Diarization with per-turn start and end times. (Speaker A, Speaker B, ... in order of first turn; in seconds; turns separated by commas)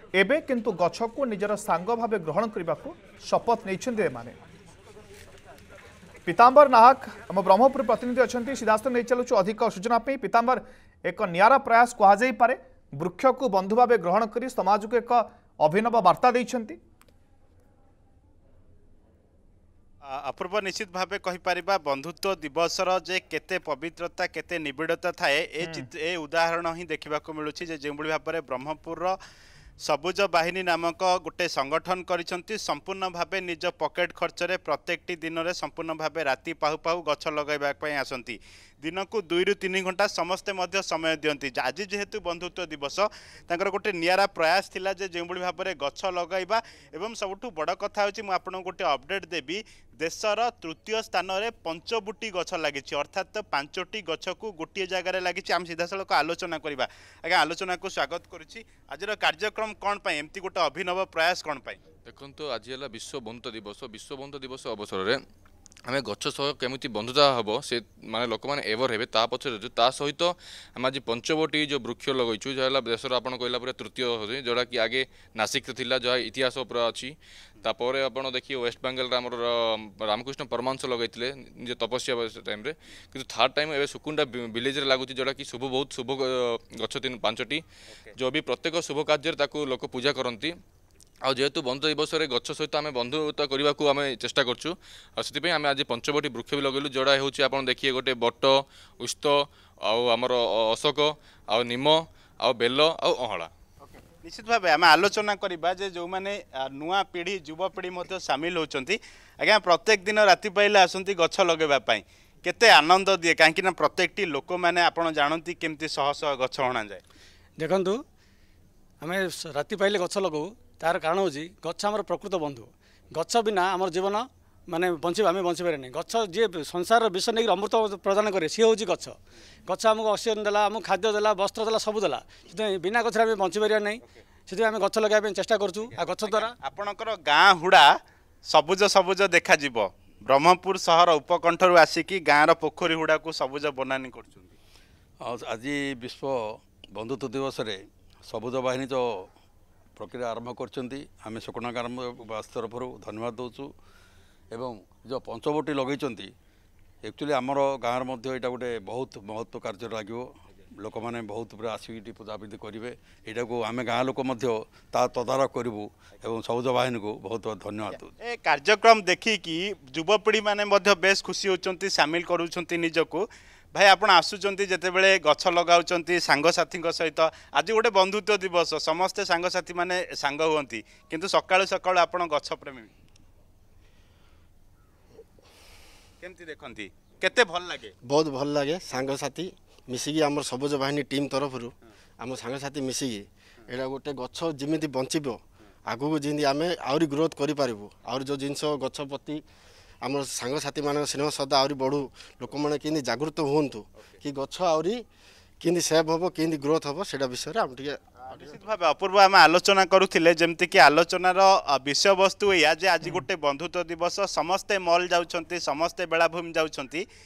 Speaker A: 0.1-4.3, Speaker A: 6.2-16.8, Speaker B: 20.1-29.1, Speaker A: 25.6-25.9, Speaker B: 29.8-61.8, Speaker C: 62.0-65.2, Speaker C: 65.9-87.6, Speaker C: 88.2-90.5, Speaker C: 91.3-103.5, Speaker B: 103.9-117.0, Speaker D: 117.6-118.0, Speaker D: 119.0-136.5, Speaker B: 136.2-137.9, Speaker B: 138.5-144.6, Speaker E: 145.2-146.4, Speaker E: 146.9-147.8, Speaker E: 148.3-149.0, Speaker E: 150.0-153.7, Speaker E: 154.5-156.3, Speaker E: 157.0-160.2, Speaker E: 160.8-168.1, Speaker B: 168.2-182.9, Speaker B: 186.2-187.9, Speaker F: 188.0-199.4, Speaker F: 200.0-205.0, Speaker F: 205.6-208.5, Speaker B: 208.3-217.0